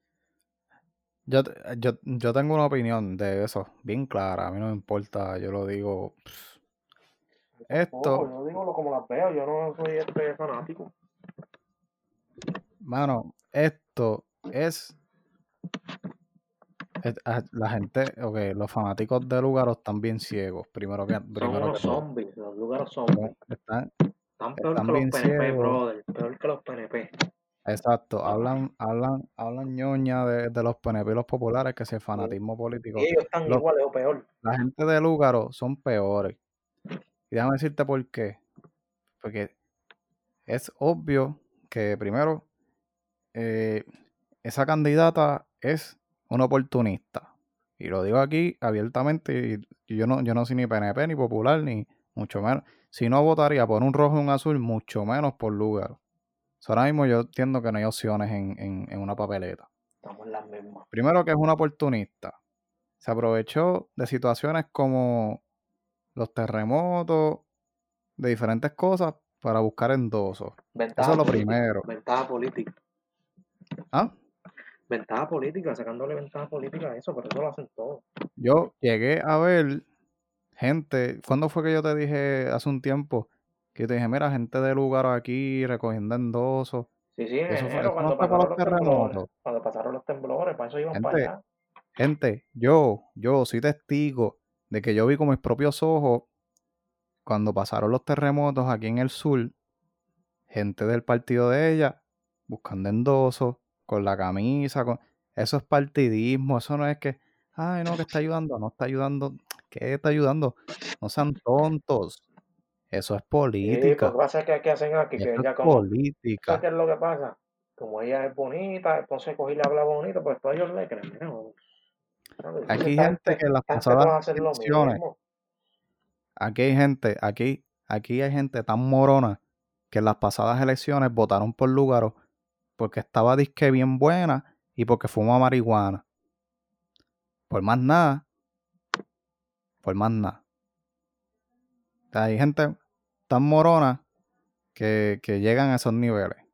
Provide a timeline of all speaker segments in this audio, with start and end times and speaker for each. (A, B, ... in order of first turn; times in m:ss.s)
0:01.3-0:06.6 A
0:07.6-0:10.9 B
0:07.7-0:08.3 A
0:12.8-0:15.0 A
0:17.0-0:22.0 A
0:21.3-0:23.4 B
0:23.1-0:23.9 A
0:24.4-0:27.1 B
0:24.6-0:25.8 A
0:27.6-0:33.6 A
0:28.2-0:28.5 B
0:33.0-0:34.2 B
0:34.4-0:36.4 A
0:37.3-0:38.4 A
0:39.2-0:39.5 A
0:40.5-0:42.4 A
0:43.3-0:43.8 A
0:44.4-0:56.0 A
0:56.6-0:59.7 A
1:00.0-1:00.8 B
1:00.9-1:02.4 A
1:03.0-1:05.4 A
1:06.2-1:07.4 A
1:08.2-1:11.8 A
1:10.8-1:12.7 B
1:14.9-1:18.0 B
1:18.4-1:19.8 A
1:20.6-1:26.9 A
1:27.1-1:31.4 B
1:27.5-1:29.3 A
1:30.9-1:31.3 A
1:32.0-1:36.2 A
1:37.2-1:39.5 A
1:40.5-1:52.2 A
1:52.9-1:54.1 A
1:53.6-1:55.8 B
1:55.2-1:56.6 A
1:56.4-2:01.6 B
2:02.4-2:05.1 B
2:02.7-2:05.0 A
2:06.4-2:09.4 A
2:09.9-2:12.1 A
2:12.8-2:16.0 A
2:17.5-2:18.2 A
2:19.8-2:20.4 A
2:22.1-2:22.7 A
2:23.3-2:24.0 A
2:24.7-2:26.4 A